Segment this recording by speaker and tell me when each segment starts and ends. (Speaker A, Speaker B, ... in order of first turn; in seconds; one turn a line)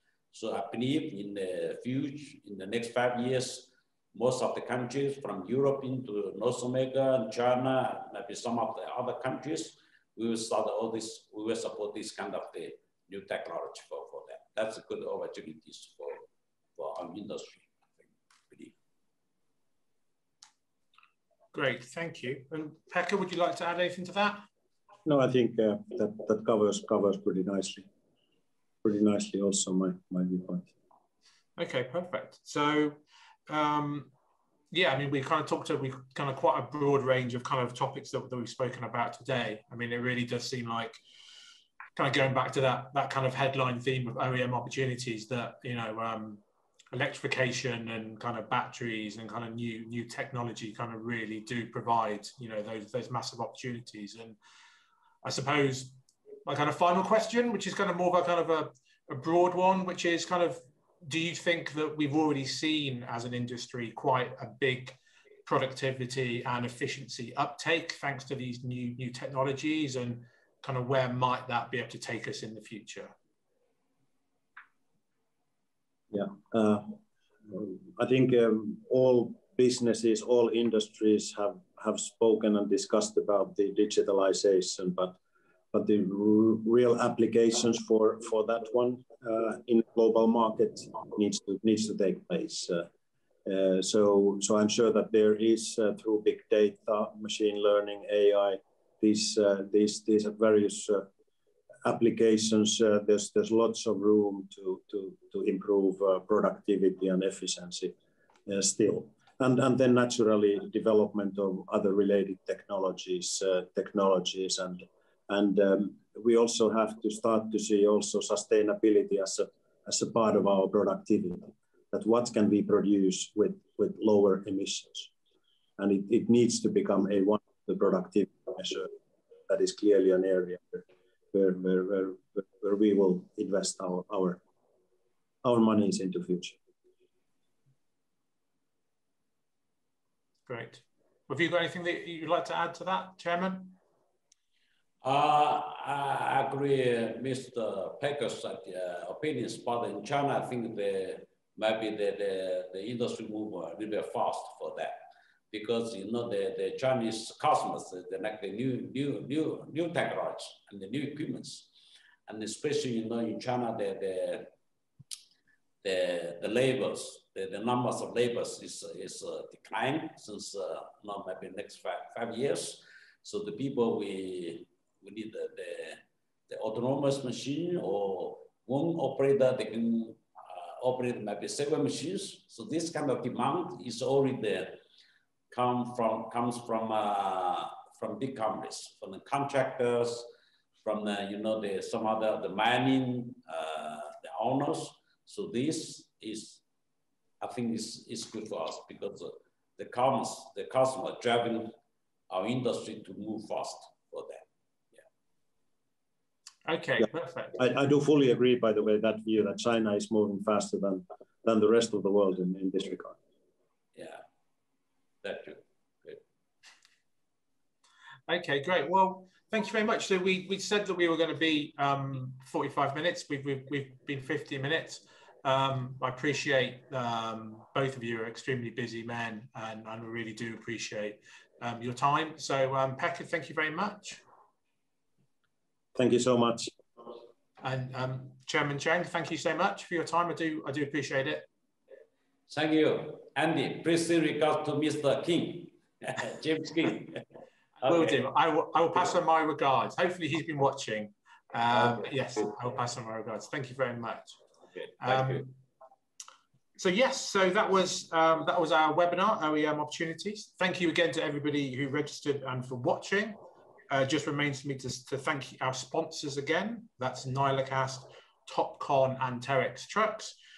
Speaker A: 0.3-16.2
Speaker A: 16.8-18.7
Speaker B: 21.5-24.4
Speaker C: 25.1-27.9
Speaker C: 28.8-30.7
Speaker B: 31.6-33.0
Speaker B: 33.5-34.1
Speaker B: 34.7-41.0
Speaker B: 42.0-54.4
Speaker B: 55.2-73.1
Speaker C: 76.1-85.2
Speaker C: 85.7-92.9
Speaker C: 93.5-101.1
Speaker C: 101.8-107.9
Speaker C: 108.5-125.1
Speaker C: 125.8-128.9
Speaker C: 129.5-134.4
Speaker C: 135.4-136.6
Speaker B: 140.5-143.8
Speaker A: 145.0-161.7
Speaker A: 162.3-164.5
Speaker A: 165.8-184.8
Speaker A: 185.5-190.3
Speaker A: 190.8-196.6
Speaker A: 197.4-201.7
Speaker A: 202.3-205.0
Speaker B: 206.7-207.6
Speaker C: 207.6-213.2
Speaker A: 213.9-214.2
Speaker A: 215.2-216.2
Speaker B: 218.3-234.2
Speaker C: 235.9-236.7
Speaker B: 237.6-241.4
Speaker A: 242.5-247.2
Speaker B: 247.8-254.4
Speaker A: 247.8-248.2
Speaker B: 255.0-255.5
Speaker A: 255.0-255.4
Speaker B: 256.8-263.4
Speaker B: 263.9-270.4